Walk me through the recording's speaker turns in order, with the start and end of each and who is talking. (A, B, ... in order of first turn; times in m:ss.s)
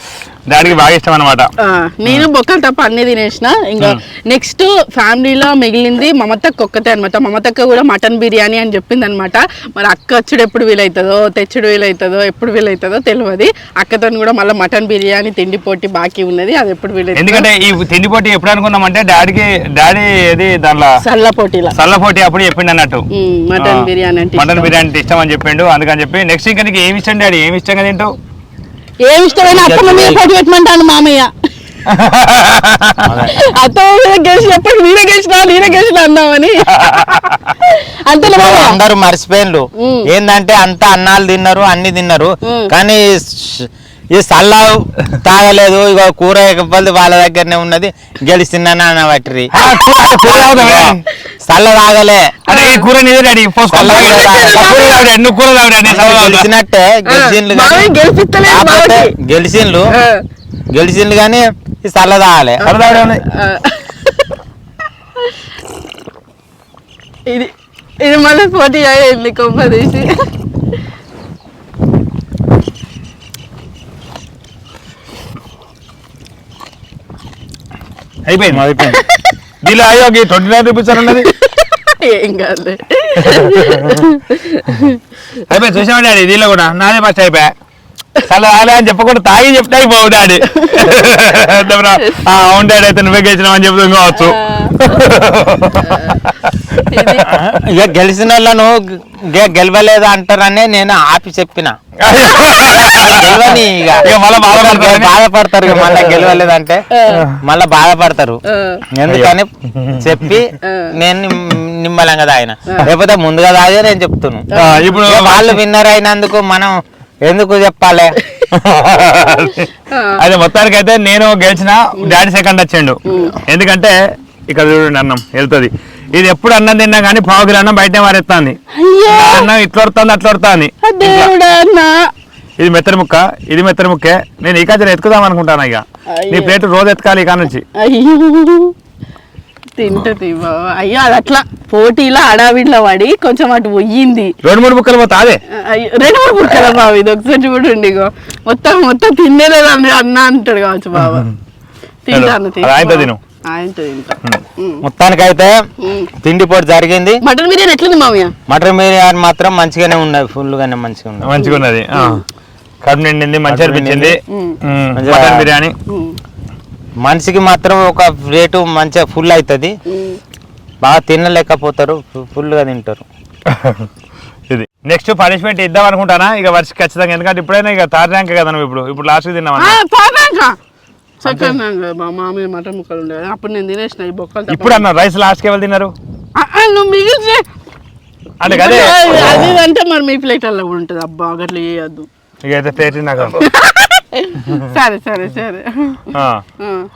0:00.5-0:01.5 A
0:01.6-0:17.4 B
0:17.1-0:20.9 A
0:21.0-0:21.7 B
0:21.7-0:23.0 A
0:23.1-0:24.7 B
0:23.6-0:28.1 A
0:29.0-0:31.3 B
0:29.5-0:30.2 C
0:31.9-0:33.2 A
0:33.0-0:33.3 C
0:33.2-0:38.8 B
0:36.8-0:37.4 A
0:38.3-0:49.5 C
0:39.8-0:40.1 B
0:42.4-0:42.7 B
0:49.5-0:51.0 A
0:50.2-0:52.4 C
0:52.5-0:52.9 B
0:52.5-0:56.5 A
0:53.7-0:54.9 C
0:53.7-0:55.1 B
0:55.8-0:57.9 C
0:57.0-0:59.1 B
0:58.4-0:59.9 C
0:59.9-1:00.2 B
1:00.7-1:02.6 C
1:02.6-1:04.3 B
1:02.6-1:03.2 A
1:07.3-1:10.2 B
1:18.2-1:18.6 A
1:18.5-1:19.0 C
1:19.6-1:21.3 A
1:21.3-1:25.0 B
1:23.2-1:24.0 A
1:25.4-1:27.5 A
1:28.2-1:37.5 A
1:30.5-1:31.0 B
1:34.2-1:34.8 B
1:36.9-1:37.2 B
1:37.3-1:41.7 C
1:42.0-1:46.3 A
1:42.4-1:42.7 B
1:42.8-1:46.8 C
1:46.9-1:47.3 B
1:47.1-1:47.4 A
1:47.4-1:48.4 C
1:48.5-1:48.8 B
1:48.9-1:49.5 C
1:49.1-1:50.2 A
1:50.0-1:54.5 C
1:50.6-1:50.9 B
1:54.5-1:54.9 B
1:54.6-1:55.6 A
1:55.0-1:58.2 C
1:58.2-1:58.5 B
1:58.5-2:03.9 A
1:59.3-2:00.2 B
2:03.1-2:03.4 B
2:04.5-2:08.6 A
2:08.7-2:09.5 B
2:09.1-2:11.3 A
2:10.8-2:11.9 B
2:12.6-2:17.6 A
2:16.1-2:16.6 B
2:17.7-2:18.7 B
2:19.8-2:24.3 B
2:24.4-2:25.4 A
2:25.5-2:31.3 B
2:31.0-2:31.3 A
2:32.1-2:34.8 B
2:32.1-2:33.2 A
2:34.8-2:35.5 C
2:35.8-2:36.1 B
2:36.2-2:37.2 C
2:37.2-2:38.3 B
2:38.5-2:41.3 C
2:41.2-2:42.2 A
2:41.4-2:42.2 B
2:42.8-2:45.7 A
2:43.5-2:44.2 C
2:44.3-2:44.6 B
2:44.9-2:45.5 C
2:45.9-2:46.2 B
2:47.0-2:49.7 C
2:49.9-2:50.2 B
2:50.8-2:53.0 C
2:53.5-2:53.9 A
2:54.5-2:59.8 A
2:59.6-3:00.5 B
3:01.2-3:04.9 B
3:01.3-3:01.6 A
3:04.5-3:05.9 A
3:06.4-3:07.4 B
3:08.4-3:09.3 A
3:08.5-3:12.1 B
3:12.4-3:13.4 A
3:13.4-3:16.0 B
3:16.1-3:16.4 A
3:16.6-3:16.9 B